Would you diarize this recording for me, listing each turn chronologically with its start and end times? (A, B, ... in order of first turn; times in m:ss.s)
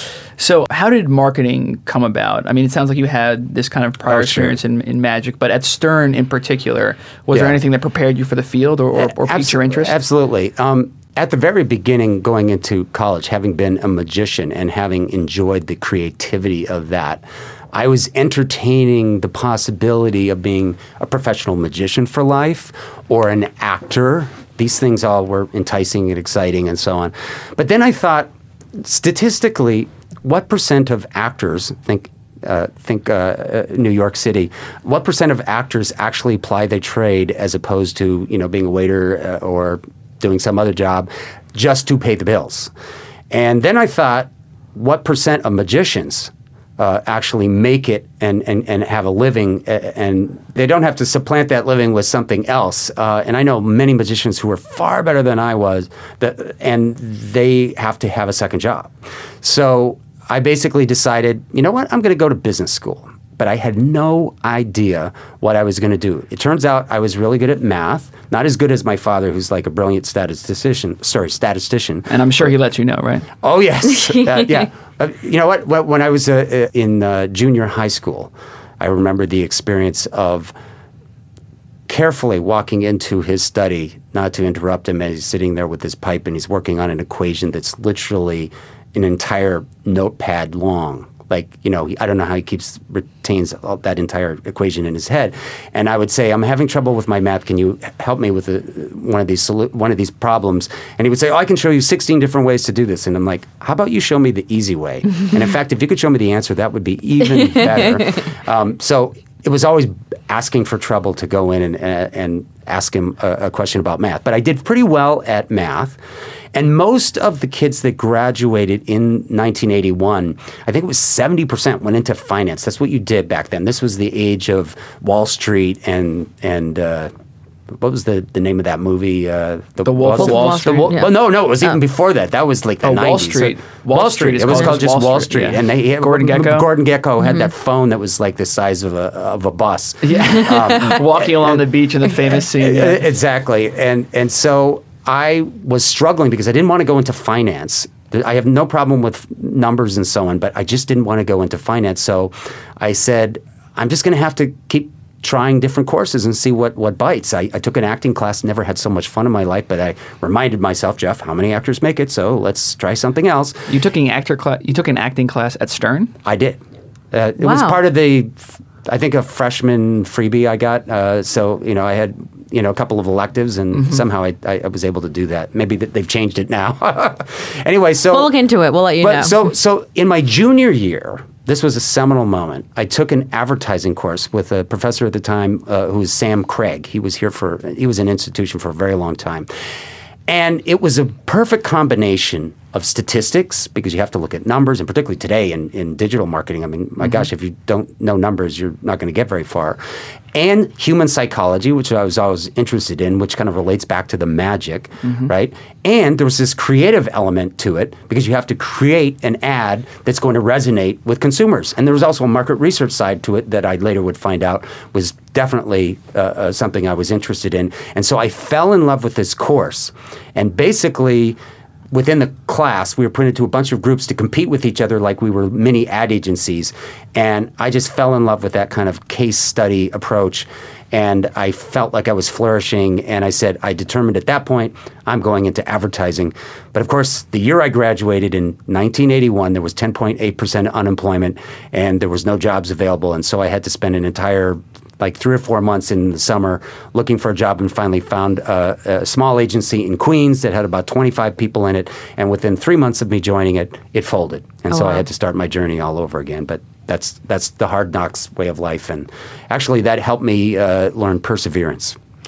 0:00.4-0:10.0 A
0:04.1-0:04.6 B
0:07.3-0:07.6 B
0:09.0-0:42.7 B
0:43.3-1:12.5 B
1:12.1-1:13.3 A
1:13.4-1:20.5 B
1:21.9-1:56.0 B
1:56.5-2:07.1 B
2:07.7-2:21.6 B
2:09.8-2:10.9 A
2:10.2-2:11.1 C
2:12.8-2:16.7 A
2:20.0-2:23.1 A
2:22.6-2:43.7 B
2:43.7-2:46.1 A
2:46.2-2:46.6 B
2:47.1-2:58.3 B
2:47.4-2:47.8 C
2:58.1-2:59.4 C
2:59.0-3:09.5 B
3:10.3-3:19.8 B
3:20.3-3:41.4 B
3:25.0-3:25.3 A
3:41.9-4:22.0 B
4:14.7-4:15.0 C